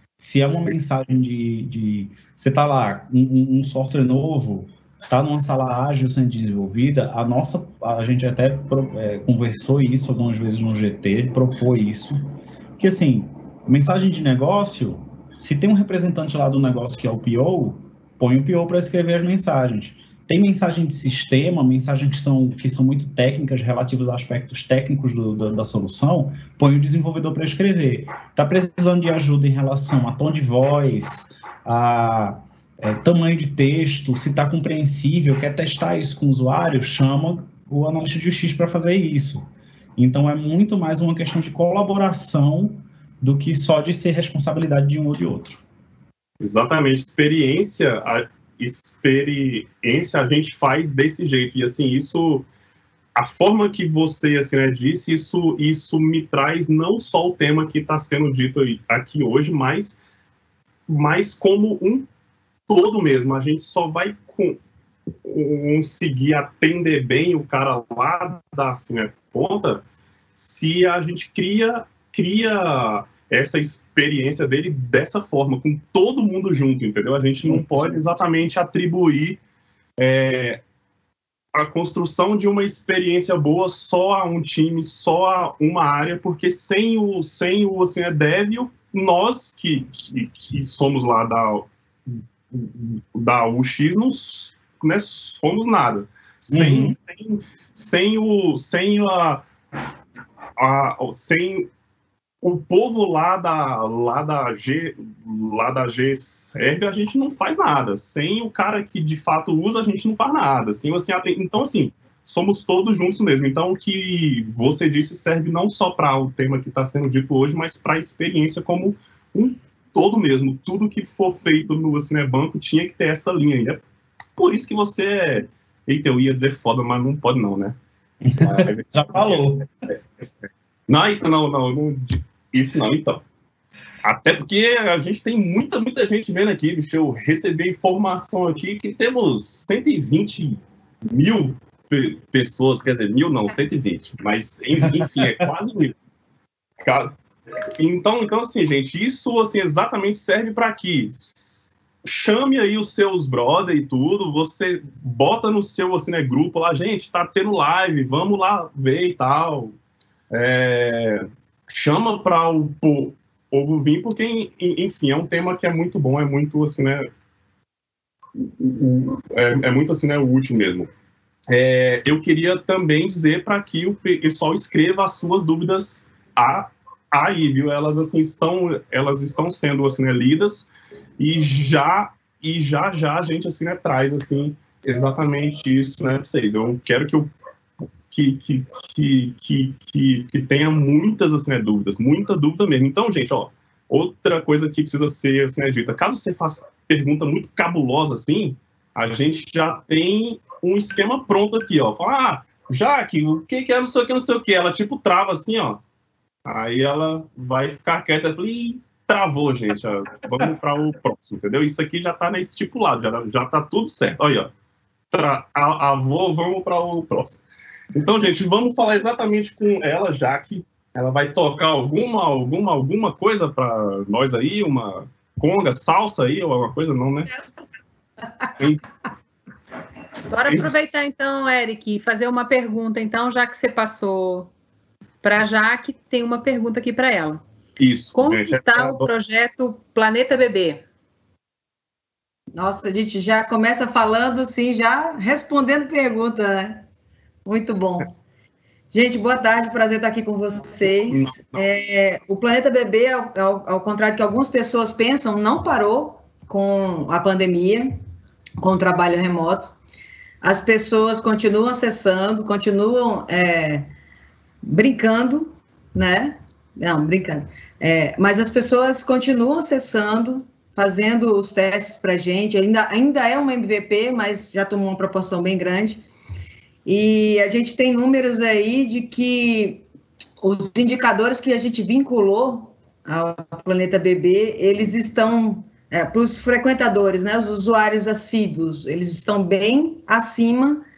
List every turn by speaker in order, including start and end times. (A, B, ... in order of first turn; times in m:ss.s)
0:00.2-0:45.6 A
0:46.4-0:52.5 B
0:53.2-1:00.0 B
1:00.9-1:02.1 B
1:02.7-1:04.6 B
1:05.2-1:19.4 B
1:20.0-1:20.6 B
1:21.5-1:39.4 B
1:36.5-1:37.0 A
1:40.6-1:41.7 B
1:42.4-2:03.8 B
2:04.4-2:07.8 B
2:08.2-2:09.7 A
2:08.4-2:13.2 B
2:14.0-2:26.0 B
2:24.9-2:25.5 A
2:26.8-2:27.1 B
2:27.7-2:39.7 B
2:40.3-2:47.0 B
2:48.4-2:50.9 B
2:51.5-3:07.3 B
3:08.1-3:25.8 B
3:26.4-3:34.5 B
3:35.1-3:37.4 B
3:37.9-3:47.3 B
3:48.6-3:48.8 B
3:50.3-3:54.5 C
3:55.2-3:57.4 C
3:57.8-3:59.1 B
3:58.1-4:00.8 C
4:02.6-4:06.8 D
4:07.4-4:08.2 D
4:08.9-4:18.0 D
4:11.1-4:11.6 B
4:18.6-4:19.8 D
4:20.4-4:23.9 D
4:24.6-4:36.0 D
4:36.8-4:39.8 D
4:40.4-4:50.8 D